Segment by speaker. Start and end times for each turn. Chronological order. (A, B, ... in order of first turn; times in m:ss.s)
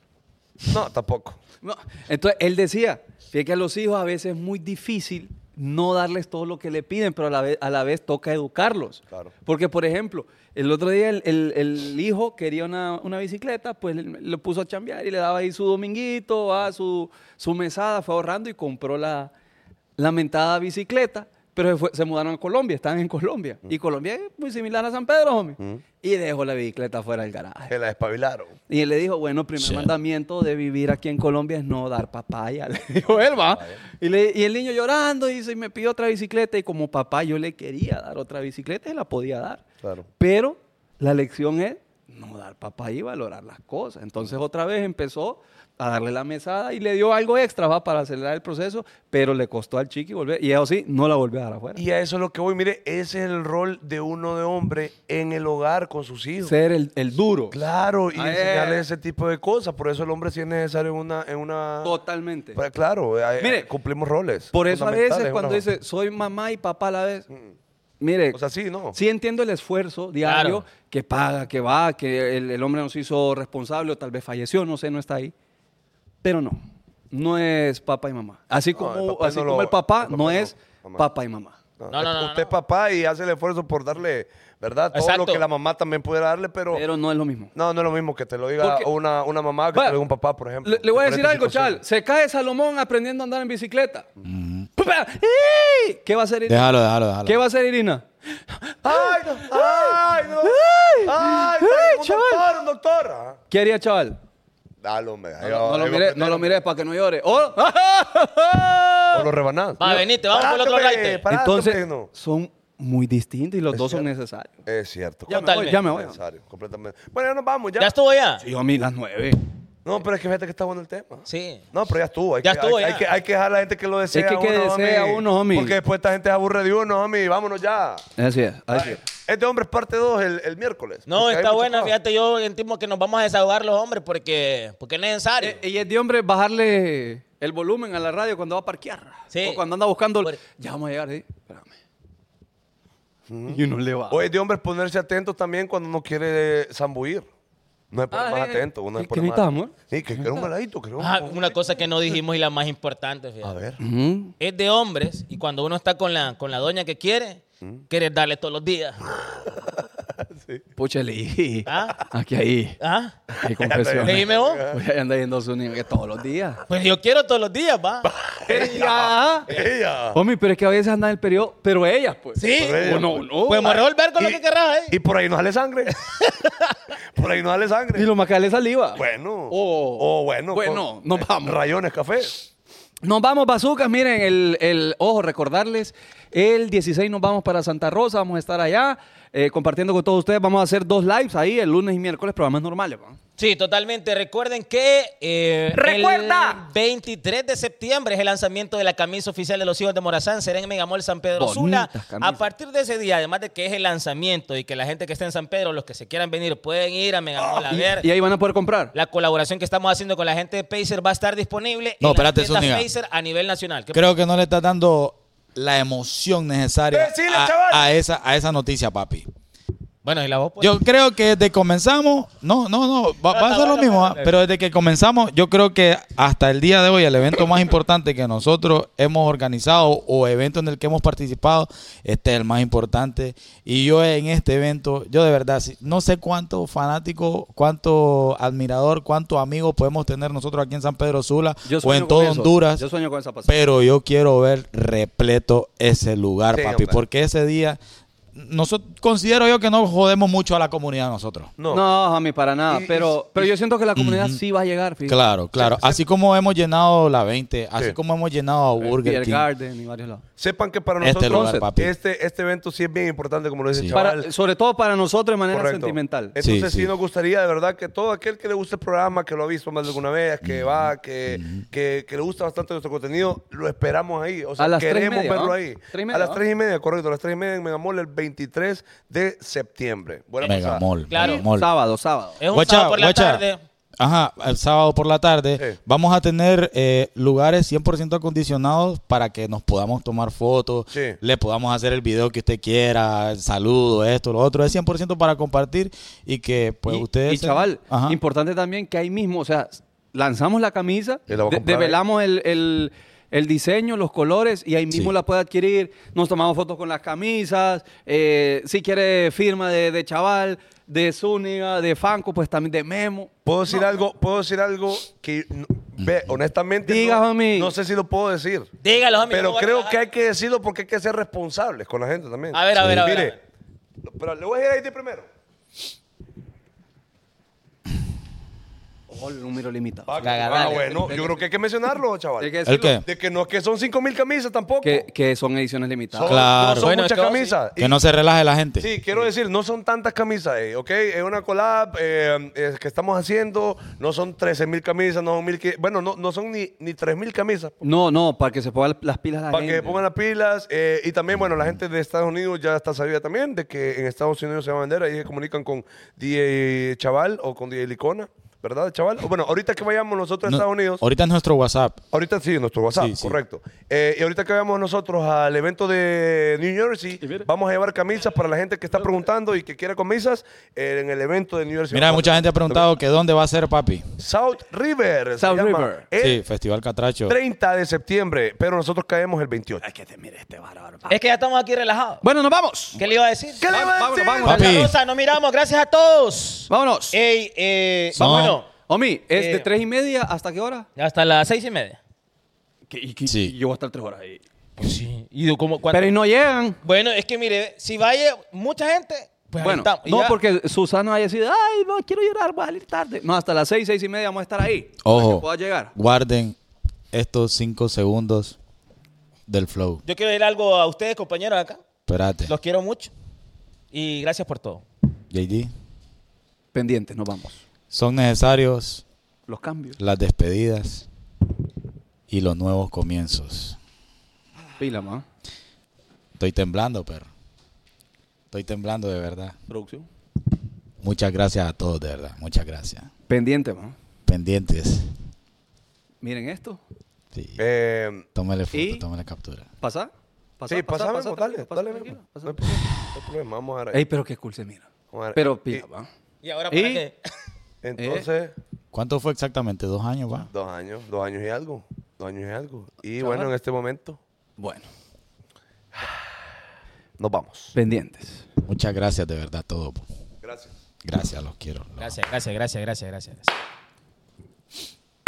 0:00.7-0:01.4 A
0:01.6-0:19.3 B
0:20.0-0:27.7 B
0:27.7-0:28.6 A
0:28.7-0:39.6 B
0:29.6-0:29.9 C
0:39.8-0:40.1 A
0:40.2-0:51.8 B
0:51.8-0:56.6 A
0:56.4-0:57.6 B
0:57.5-1:02.0 A
0:58.2-0:58.8 B
1:01.8-1:02.6 B
1:02.6-1:05.6 A
1:03.4-1:03.7 B
1:04.5-1:07.3 B
1:08.0-1:08.4 B
1:08.3-1:09.0 A
1:08.9-1:15.3 B
1:10.2-1:10.6 D
1:16.2-1:21.6 B
1:18.8-1:21.1 A
1:21.8-1:26.8 A
1:21.9-1:22.5 D
1:24.9-1:25.4 D
1:26.7-1:27.5 B
1:27.6-1:31.8 A
1:28.6-1:28.9 B
1:29.7-1:30.0 B
1:30.6-1:34.1 B
1:34.2-1:34.7 C
1:34.8-1:36.7 B
1:36.5-1:37.4 C
1:37.2-1:42.4 B
1:38.8-1:43.4 A
1:43.5-1:44.2 B
1:44.8-1:46.5 A
1:45.4-1:49.3 B
1:49.1-1:52.1 A
1:49.8-1:51.2 D
1:51.3-1:54.5 B
1:53.7-1:54.1 A
1:54.7-1:57.9 A
1:55.3-1:55.8 D
1:55.3-1:56.2 B
1:57.8-1:58.4 D
1:58.4-1:59.4 B
1:59.8-2:08.0 A
2:01.3-2:01.7 D
2:02.4-2:03.1 D
2:04.1-2:05.8 B
2:08.2-2:09.0 B
2:08.7-2:11.9 A
2:11.1-2:15.6 D
2:15.4-2:21.7 B
2:19.3-2:19.6 D
2:23.3-2:27.3 A
2:23.5-2:24.2 B
2:27.9-2:31.5 A
2:28.1-2:30.5 B
2:31.0-2:33.6 D
2:33.4-2:33.8 A
2:33.8-2:34.3 B
2:34.4-2:39.0 D
2:39.3-2:40.6 A
2:40.8-2:42.8 B
2:41.7-2:42.0 D
2:42.8-2:43.2 D
2:43.3-2:44.8 A
2:43.4-2:46.6 B
2:44.0-2:44.7 D
2:46.7-2:48.8 D
2:48.0-2:50.2 A
2:48.5-2:49.5 B
2:50.1-2:53.8 B
2:52.4-2:55.0 D
2:52.5-2:56.0 A
2:56.2-2:56.7 D
2:57.2-2:58.1 A
2:57.9-3:01.6 B
2:59.0-3:02.5 A
3:03.0-3:13.2 B
3:13.4-3:28.1 D
3:15.7-3:16.6 B
3:21.4-3:22.5 B
3:27.4-3:27.8 A
3:27.7-3:28.9 B
3:28.9-3:34.0 D
3:32.0-3:32.9 C
3:33.9-3:39.3 C
3:36.9-3:37.9 A
3:40.0-3:40.8 D
3:40.6-4:02.8 C
3:43.3-3:44.3 D
4:01.7-4:03.6 B
4:03.5-4:07.8 C
4:06.5-4:07.0 A
4:08.4-4:11.5 C
4:11.6-4:11.9 A
4:11.7-4:15.2 B
4:12.7-4:13.5 A
4:14.0-4:14.4 C
4:15.1-4:19.4 C
4:15.6-4:16.0 A
4:18.8-4:20.2 B
4:20.4-4:24.3 A
4:21.0-4:21.9 C
4:21.3-4:21.7 B
4:23.7-4:24.0 C
4:23.9-4:26.4 B
4:25.5-4:40.8 A
4:26.4-4:26.9 C
4:30.4-4:31.6 C
4:34.6-4:36.4 B
4:40.4-4:41.7 C
4:41.1-4:41.4 D
4:41.2-4:42.4 B
4:42.4-4:43.6 D
4:42.5-4:43.4 C
4:44.0-4:58.2 C
4:50.9-4:51.2 A
4:56.9-5:13.3 B
5:01.3-5:02.0 A
5:13.4-5:18.7 A
5:16.0-5:16.3 C
5:16.8-5:17.7 B
5:18.8-5:20.0 D
5:19.3-5:23.4 A
5:22.5-5:23.4 D
5:22.8-5:23.1 C
5:24.0-5:25.3 A
5:29.1-5:31.4 B
5:30.1-5:35.1 A
5:30.2-5:31.2 D
5:32.4-5:33.0 B
5:32.7-5:33.0 C
5:34.8-5:36.3 B
5:36.1-5:38.0 A
5:36.2-5:36.9 C
5:36.8-5:37.6 D
5:37.8-5:38.9 C
5:38.8-5:47.8 A
5:47.8-5:50.0 B
5:49.5-6:01.0 A
6:00.4-6:02.0 C
6:02.1-6:12.9 A
6:02.9-6:03.4 C
6:07.2-6:07.5 B
6:11.9-6:14.0 C
6:14.2-6:16.4 A
6:15.4-6:16.1 B
6:16.2-6:17.4 C
6:17.3-6:19.8 A
6:19.8-6:21.2 B
6:21.1-6:22.2 D
6:22.2-6:23.0 B
6:23.0-6:23.7 D
6:23.6-6:24.7 A
6:23.7-6:24.8 B
6:24.5-6:25.0 C
6:24.5-6:28.7 D
6:26.7-6:27.2 B
6:28.1-6:30.9 B
6:28.2-6:28.6 C
6:29.4-6:29.7 D
6:31.0-6:32.0 D
6:32.9-6:34.4 B
6:33.3-6:33.5 C
6:34.8-6:36.1 D
6:35.9-6:36.8 B
6:36.8-6:40.4 D
6:39.6-6:45.9 B
6:45.0-6:46.6 C
6:47.1-6:48.6 C
6:49.5-6:50.0 C
6:50.0-6:51.8 D
6:52.1-6:52.5 C
6:52.5-6:53.1 D
6:53.9-6:54.8 D
6:55.3-6:55.7 C
6:56.7-6:57.6 B
6:57.9-6:59.0 C
6:59.5-7:00.0 B
7:00.0-7:01.1 C
7:02.3-7:03.8 C
7:04.8-7:05.2 B
7:06.4-7:07.3 C
7:08.5-7:09.6 C
7:09.7-7:10.1 B
7:11.0-7:13.1 C
7:13.3-7:14.0 B
7:14.3-7:15.1 C
7:16.2-7:16.8 B
7:17.3-7:17.6 C
7:17.6-7:18.3 A
7:18.4-7:19.7 C
7:18.7-7:19.0 B
7:19.8-7:22.9 B
7:20.7-7:24.0 A
7:23.9-7:26.1 B
7:25.1-7:25.8 A
7:26.4-7:27.2 D
7:26.7-7:27.0 B
7:27.8-7:28.6 A
7:28.0-7:28.3 B
7:28.9-7:30.5 C
7:30.5-7:34.2 A
7:33.2-7:33.5 B
7:34.6-7:34.9 B
7:37.2-7:37.8 A
7:37.7-7:38.4 B
7:38.7-7:40.0 C
7:40.4-7:40.7 A
7:41.0-7:42.2 C
7:42.0-7:43.5 D